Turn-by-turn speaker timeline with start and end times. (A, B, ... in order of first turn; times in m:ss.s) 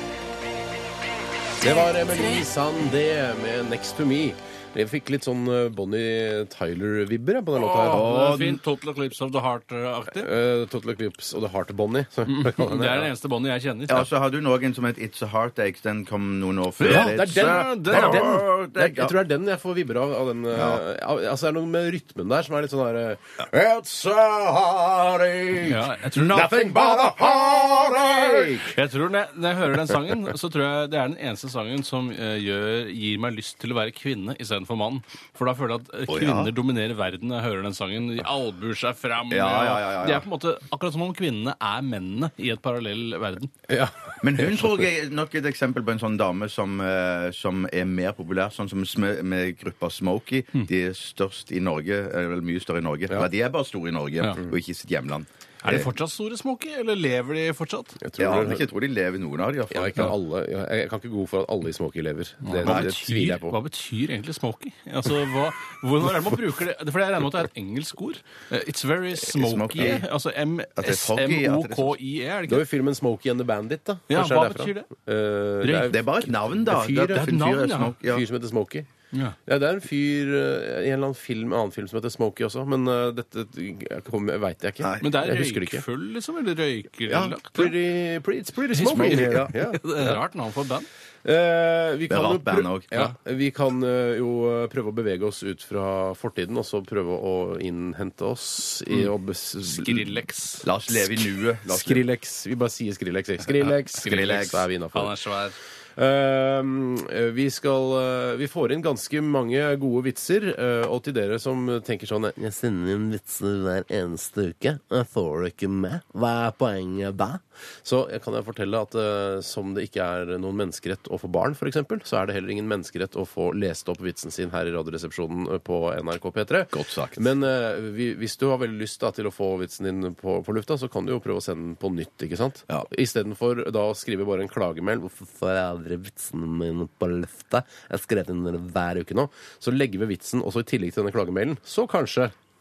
0:01.6-0:08.1 A
0:07.6-0:10.3 B
0:07.9-0:08.6 C
0:10.1-0:13.1 A
0:12.3-0:14.1 B
0:13.9-0:19.1 C
0:16.8-0:18.6 B
0:16.8-0:28.7 A
0:20.5-0:20.8 C
0:25.6-0:26.5 B
0:26.1-0:28.6 C
0:28.7-0:43.5 B
0:36.1-0:36.5 C
0:39.3-0:40.2 C
0:43.7-0:44.5 A
0:44.2-0:55.9 C
0:55.6-0:58.0 B
0:58.0-0:58.6 A
0:58.2-1:00.1 C
0:59.7-1:03.6 A
1:02.4-1:12.6 B
1:02.6-1:02.9 C
1:09.3-1:10.0 C
1:10.8-1:12.0 C
1:12.5-1:16.0 A
1:14.1-1:14.9 B
1:15.6-1:16.0 B
1:15.9-1:18.2 C
1:16.6-1:17.2 A
1:16.7-1:18.0 B
1:18.1-1:18.9 A
1:19.4-1:25.8 A
1:24.8-1:25.1 C
1:25.0-1:27.7 B
1:27.1-1:27.4 C
1:27.5-1:30.2 A
1:28.7-1:30.9 B
1:28.8-1:29.5 C
1:31.2-1:40.1 A
1:32.1-1:32.9 C
1:39.6-1:40.7 B
1:40.6-1:42.0 C
1:41.6-1:45.1 A
1:43.9-1:45.6 B
1:44.0-1:44.6 C
1:46.0-2:22.3 A
2:06.7-2:07.2 C